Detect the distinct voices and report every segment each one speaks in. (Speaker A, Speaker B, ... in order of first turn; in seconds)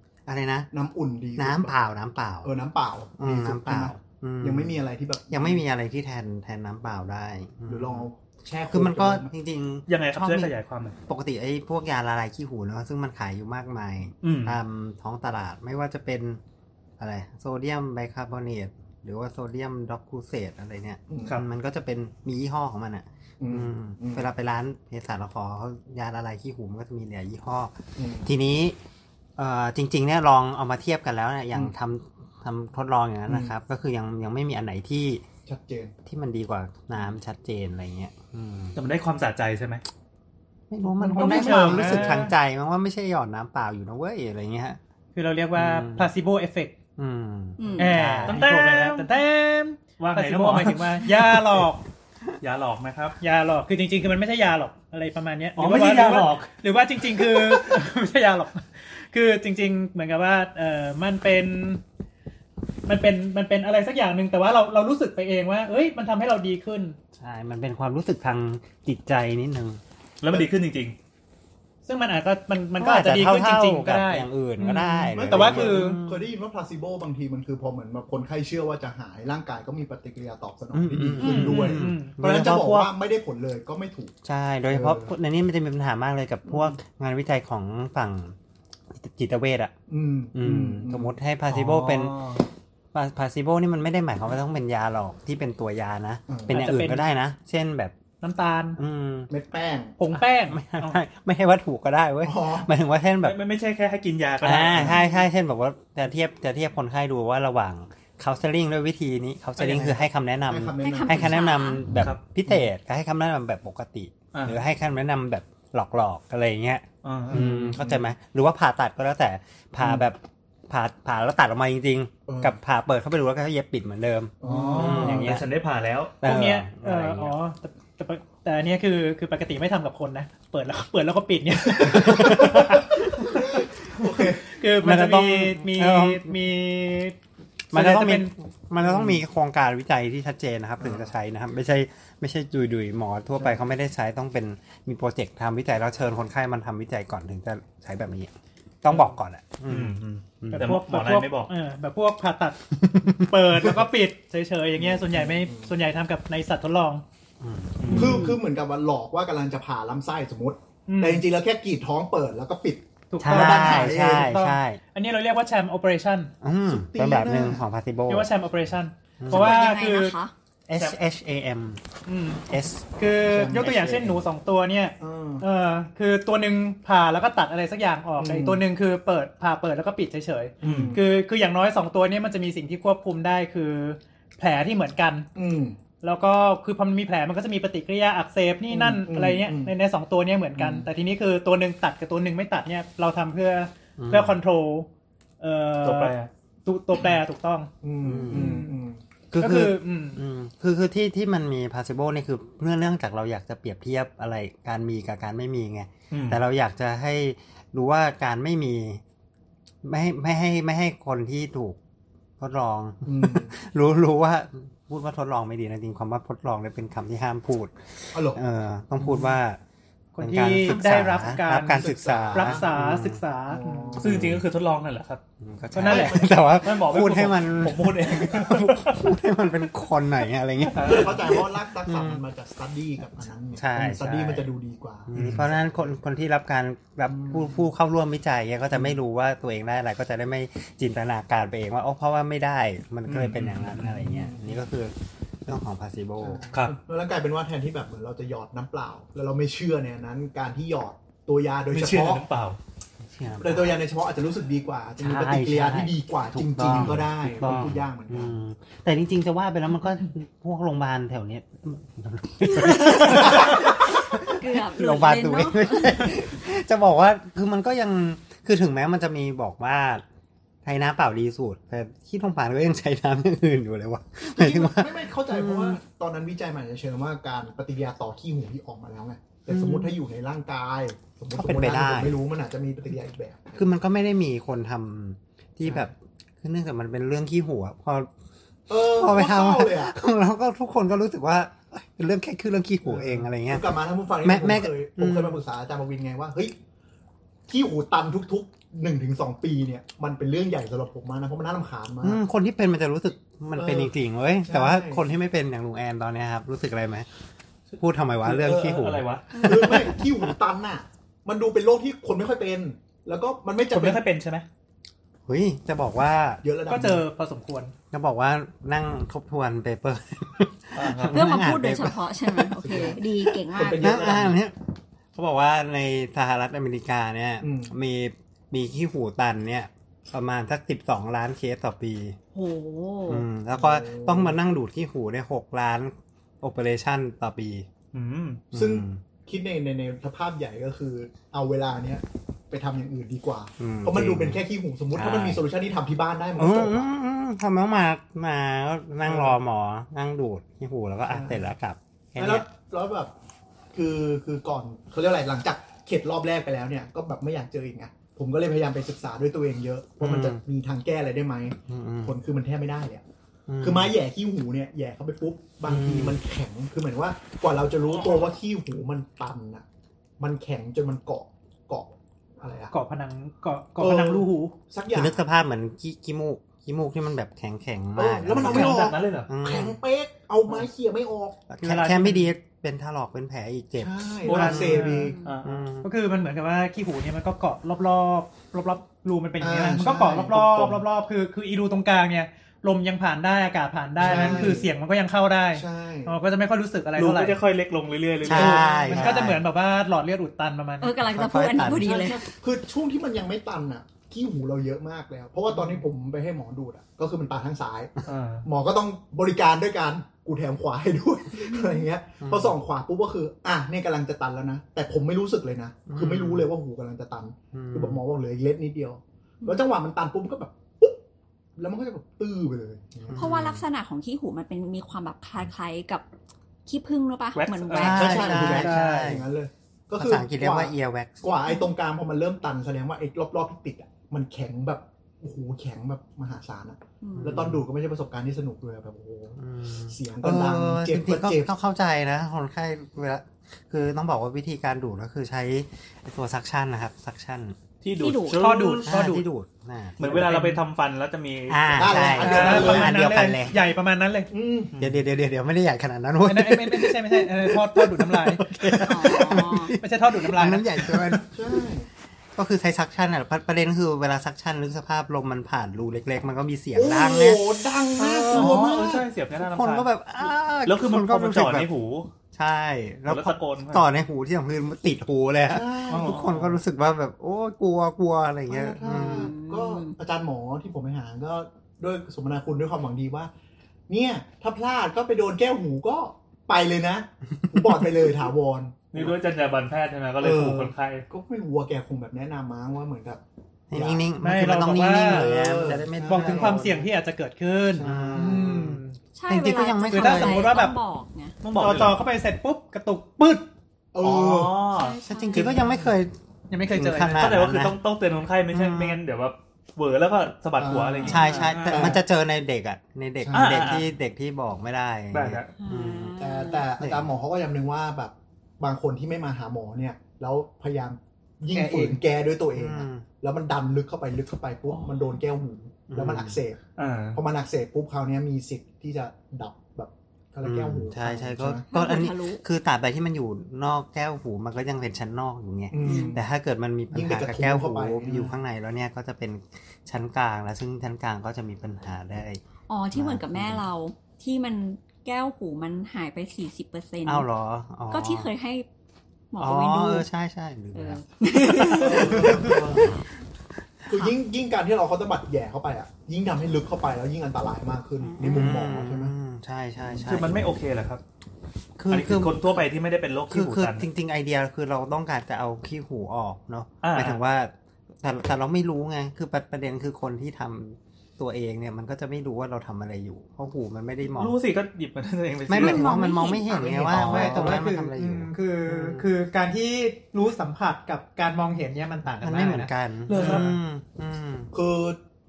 Speaker A: 0.3-0.7, 1.4-2.5, 3.2-8.1, 8.7-10.5, 11.1-16.4, 17.0-27.7, 28.2-28.8, 29.4-35.2, 36.0-38.8, 40.7-44.8, 45.5-46.1, 47.0-48.4, 67.2-69.8, 72.8-76.3, 80.7-82.9, 84.2-88.4, 88.9-89.7, 90.3-92.2, 92.9-98.0, 98.8-99.3, 100.2-103.4, 104.4-125.5, 126.2-127.3, 132.0-132.6, 134.8-136.4, 137.7-148.3, 148.8-150.7, 152.9-153.3, 157.4-158.3, 163.2-164.8, 166.4-168.3, 169.2-169.6, 170.7-171.8, 172.5-172.9, 173.5-174.2, 194.0-194.4, 198.0-198.6, 199.3-209.0, 209.8-211.8, 212.4-219.6, 220.2-223.2, 224.0-224.4, 225.4-232.2, 233.5-234.5, 235.1-244.9, 245.5-246.4, 253.0-253.8, 255.0-270.0, 270.6-275.8, 279.5-280.0, 281.3-282.2, 283.5-288.1, 288.8-295.4, 302.0-307.1, 307.8-310.3, 315.3-316.4, 317.9-324.6, 325.1-332.2, 333.1-337.7, 338.5-339.0, 343.6-344.4, 344.9-345.4, 346.4-352.5, 360.0-360.4, 361.7-362.2, 363.5-363.9, 365.6-366.2, 374.9-379.8, 381.5-385.9, 394.0-394.6, 398.2-399.4, 401.1-402.2, 412.2-412.5, 415.9-416.5, 417.5-418.0, 423.1-423.6, 427.8-429.3, 430.0-431.2, 437.2-437.6, 439.4-447.6, 448.9-450.3, 451.5-453.6, 454.8-461.3, 462.4-467.5, 468.0-468.6, 469.4-471.7, 472.3-479.3, 493.7-496.9, 497.8-500.6, 505.1-506.1, 506.7-507.8, 508.5-509.0, 511.1-517.1, 522.5-523.1, 525.9-526.4, 530.4-542.4, 542.9-543.6, 547.0-548.3, 549.4-551.0, 551.7-552.9, 558.2-560.5, 561.8-562.7, 563.3-574.4, 575.5-579.1, 582.2-584.5
Speaker B: 0.7-1.7, 2.4-5.6, 7.7-9.3, 21.1-21.4, 23.4-24.3, 28.0-28.3, 35.5-35.9, 41.1-42.3, 75.1-84.1, 84.7-85.1, 89.9-91.1, 96.3-96.7, 99.3-100.0, 102.2-102.7, 110.5-111.4, 117.3-118.1, 119.8-120.1, 122.3-122.5, 124.4-125.4, 131.8-134.6, 138.8-139.2, 140.8-141.1, 143.4-143.6, 154.8-155.7, 157.9-164.4, 166.7-167.6, 173.2-173.8, 175.0-175.4, 178.2-178.6, 180.6-181.1, 185.3-185.8, 188.7-189.7, 197.8-199.0, 213.1-213.6, 218.1-218.4, 219.0-219.3, 222.3-222.7, 223.5-224.4, 230.8-235.8, 237.1-237.7, 243.9-244.6, 246.2-252.2, 253.4-258.4, 263.2-263.8, 274.4-283.5, 285.6-285.9, 288.7-289.9, 292.9-296.6, 297.5-302.2, 303.6-303.9, 304.5-305.0, 309.4-314.0, 316.4-317.1, 322.6-323.0, 323.5-324.4, 327.4-327.7, 333.6-334.4, 338.5-346.9, 349.1-349.4, 351.1-351.5, 352.2-353.1, 353.7-363.0, 363.6-369.6, 370.2-372.8, 373.8-375.2, 377.9-381.4, 383.8-385.2, 389.4-390.4, 394.0-394.7, 395.5-396.2, 398.4-398.9, 401.8-421.0, 421.6-423.2, 427.8-441.5, 451.7-453.2, 454.3-454.7, 461.3-461.9, 466.8-469.1, 475.5-476.4, 478.5-483.3, 483.9-489.1, 490.2-496.9, 497.7-498.6, 503.9-504.6, 505.5-505.9, 510.6-512.0, 513.2-513.8, 516.2-526.6, 527.1-531.6, 535.7-536.2, 536.9-538.4, 551.8-553.0, 553.9-559.1, 559.8-560.2, 576.6-577.6, 584.5-585.0
Speaker C: 9.9-11.0, 14.2-14.6, 38.8-39.8, 48.2-49.1, 50.0-51.4, 52.4-53.2, 55.6-56.5, 70.2-71.0, 82.4-82.9, 91.5-92.5, 103.2-105.0, 109.6-110.0, 114.3-114.6, 117.0-117.8, 124.4-126.2, 149.7-151.5, 157.8-158.3, 180.6-181.0, 195.8-196.3, 206.1-206.4, 224.0-225.2, 225.8-229.2, 230.7-231.2, 235.1-235.5, 243.1-243.9, 251.7-252.6, 256.7-257.8, 308.2-309.3, 313.7-314.5, 320.8-321.3, 337.9-338.4, 378.4-379.3, 384.3-385.6, 389.7-390.9, 397.0-399.4, 408.1-408.5, 427.4-428.6, 447.8-448.9, 450.0-452.9, 454.7-455.0, 468.3-469.9, 470.6-472.1, 473.1-473.9, 475.9-476.6, 488.9-491.1, 501.4-502.0, 504.0-505.7, 507.0-511.9, 513.3-513.9, 515.1-515.5, 526.8-527.2, 551.9-552.4, 560.0-561.0, 561.9-563.9, 566.8-567.2, 574.1-576.0, 583.1-583.6
Speaker D: 41.0-42.3, 45.1-46.8, 47.8-51.8, 53.2-61.8, 62.9-67.0, 71.8-76.0, 81.2-82.2, 96.5-97.1, 98.2-98.8, 100.0-100.6, 126.2-133.0, 134.4-137.2, 137.7-138.3, 150.5-157.0, 160.9-161.3, 163.1-166.3, 168.1-170.2, 172.1-172.4, 173.0-185.3, 186.0-194.9, 195.4-196.1, 196.7-197.7, 198.3-198.8, 199.4-200.2, 220.2-224.0, 225.7-226.2, 316.7-317.7, 372.7-374.6, 381.6-382.3, 384.3-385.1, 385.8-397.4, 398.3-401.0, 428.5-429.1, 448.0-449.2, 450.0-450.6, 452.2-454.3, 456.2-461.2, 494.2-495.3, 495.9-499.0, 499.9-500.8, 501.6-503.5, 506.5-507.3, 511.5-511.8, 521.5-522.0, 576.6-583.5
Speaker E: 47.6-47.9, 110.8-111.8, 169.3-170.3, 262.8-266.1, 321.1-324.0, 332.3-333.2, 385.0-385.3, 400.8-402.3, 423.1-426.1, 426.7-428.4, 437.0-437.4, 448.1-448.4, 458.8-459.8, 478.9-480.0, 499.1-501.4, 504.7-505.6, 515.6-516.7, 531.7-532.4, 535.8-536.2, 542.7-547.2, 547.9-548.7, 549.3-550.1, 550.7-552.6, 558.0-558.5, 575.5-576.9